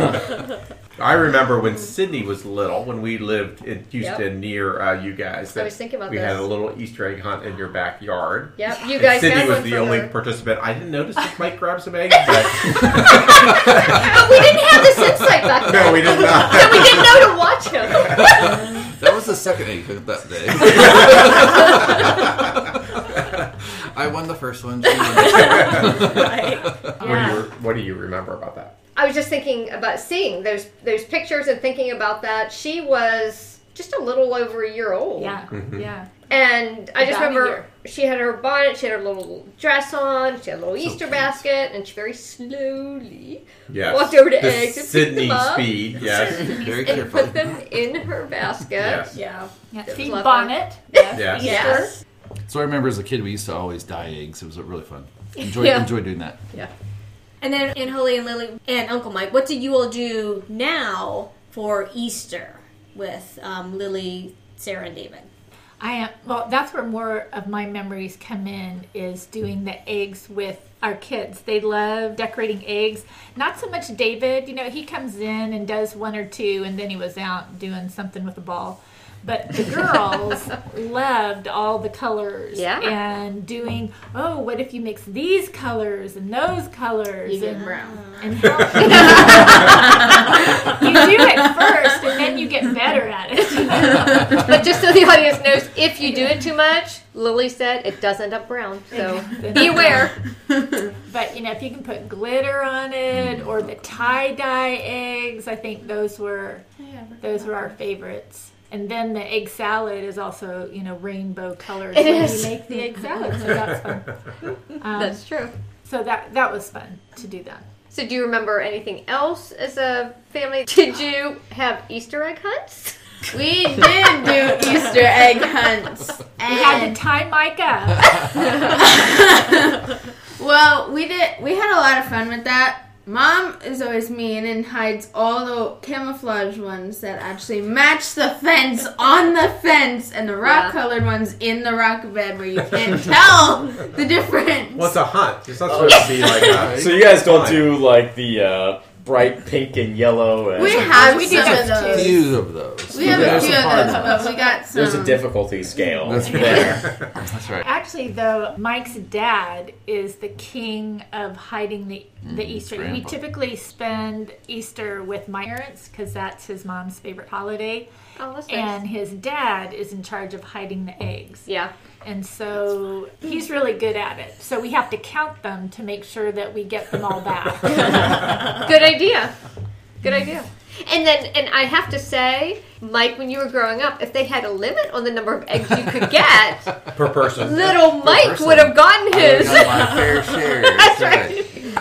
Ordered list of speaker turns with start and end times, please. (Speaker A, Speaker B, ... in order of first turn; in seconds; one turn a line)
Speaker A: 1.0-14.0
Speaker B: 5.5-6.5
Speaker B: 8.6-10.1
Speaker B: 13.1-18.6
Speaker A: 15.6-17.3
Speaker C: 18.2-22.3
Speaker C: 23.9-27.1
Speaker D: 24.9-26.7
Speaker A: 25.6-25.8
Speaker E: 27.0-27.4
Speaker A: 27.0-28.7
Speaker B: 28.9-35.4
Speaker E: 35.2-36.1
Speaker A: 35.5-35.8
Speaker B: 36.3-49.1
Speaker E: 37.0-37.6
Speaker C: 40.8-41.4
Speaker A: 43.7-46.6
Speaker C: 46.0-47.6
Speaker A: 48.8-49.1
Speaker D: 49.1-49.5
Speaker E: 49.7-50.8
Speaker B: 49.9-51.9
Speaker D: 50.9-52.0
Speaker A: 51.1-51.5
Speaker E: 51.4-51.9
Speaker C: 52.5-56.4
Speaker D: 55.4-55.9
Speaker D: 57.4-65.3
Speaker E: 65.8-94.5
Speaker B: 82.5-82.9
Speaker F: 87.2-88.1
Speaker B: 88.7-90.1
Speaker B: 94.3-100.1
Speaker E: 98.9-100.1
Speaker E: 101.0-106.6
Speaker C: 103.1-103.7
Speaker F: 106.8-107.6
Speaker E: 107.2-115.2
Speaker B: 114.9-115.5
Speaker E: 115.8-117.6
Speaker B: 117.9-122.9
Speaker F: 123.3-127.0
Speaker E: 126.5-128.3
Speaker F: 128.4-145.0
Speaker B: 140.4-140.8
Speaker A: 144.7-147.7
Speaker G: 145.7-151.6
Speaker C: 146.4-147.1
Speaker F: 150.6-152.4
Speaker E: 150.8-152.2
Speaker C: 151.4-154.0
Speaker F: 152.9-155.3
Speaker E: 152.9-154.6
Speaker G: 153.0-156.9
Speaker C: 156.0-157.7
Speaker E: 157.6-167.9
Speaker C: 162.2-163.2
Speaker B: 168.2-168.8
Speaker E: 168.5-171.5
Speaker E: 172.0-178.1
Speaker B: 177.7-179.3
Speaker B: 180.0-186.7
Speaker A: 186.9-187.8
Speaker B: 187.3-191.6
Speaker C: 187.8-191.4